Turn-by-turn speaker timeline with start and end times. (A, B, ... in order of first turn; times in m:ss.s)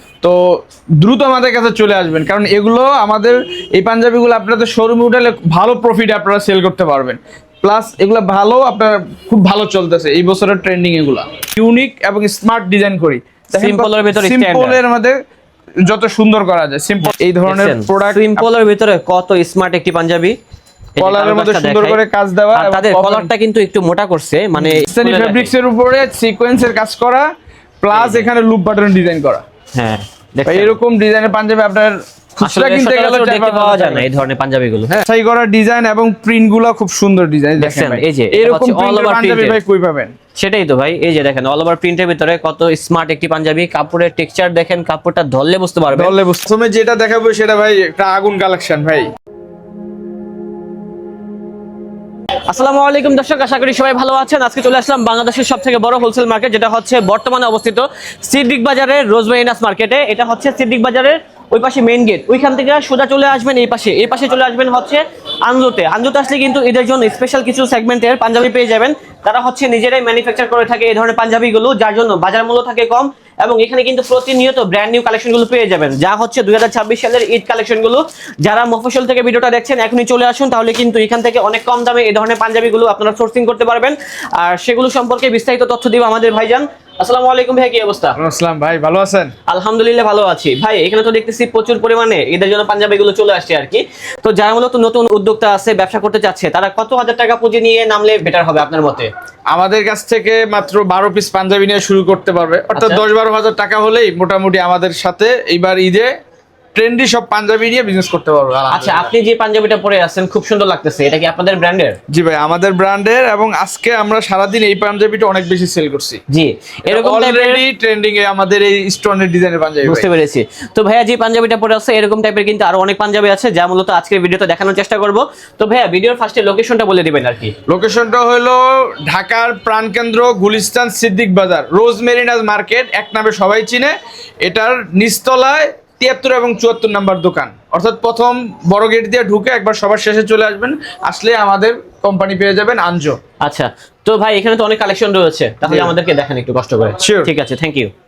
0:01.0-0:15.2 A
0:13.5-0:14.8 B
0:15.8-0:18.5 A
0:17.0-0:20.4 B
0:21.0-0:22.0 B
0:21.0-0:23.3 A
0:22.5-0:25.5 B
0:24.6-0:27.3 A
0:27.8-0:29.4 A
0:27.9-0:28.3 B
0:29.7-0:30.8 B
0:30.5-0:34.0 A
0:32.4-0:35.0 B
0:35.0-0:40.1 A
0:37.6-0:39.6 B
0:40.4-0:46.1 B
0:45.9-0:49.1 A
0:52.5-1:28.1 B
1:28.2-1:29.3 A
1:29.5-1:39.1 B
1:39.5-1:46.1 A
1:42.7-1:43.0 B
1:46.7-1:49.1 A
1:48.7-1:52.0 B
1:52.1-1:56.2 A
1:56.3-1:57.6 B
1:56.9-2:00.1 A
1:59.8-2:07.5 B
2:07.7-2:13.9 A
2:14.4-2:23.2 A
2:23.4-2:27.9 B
2:25.6-2:25.9 A
2:27.0-2:27.3 A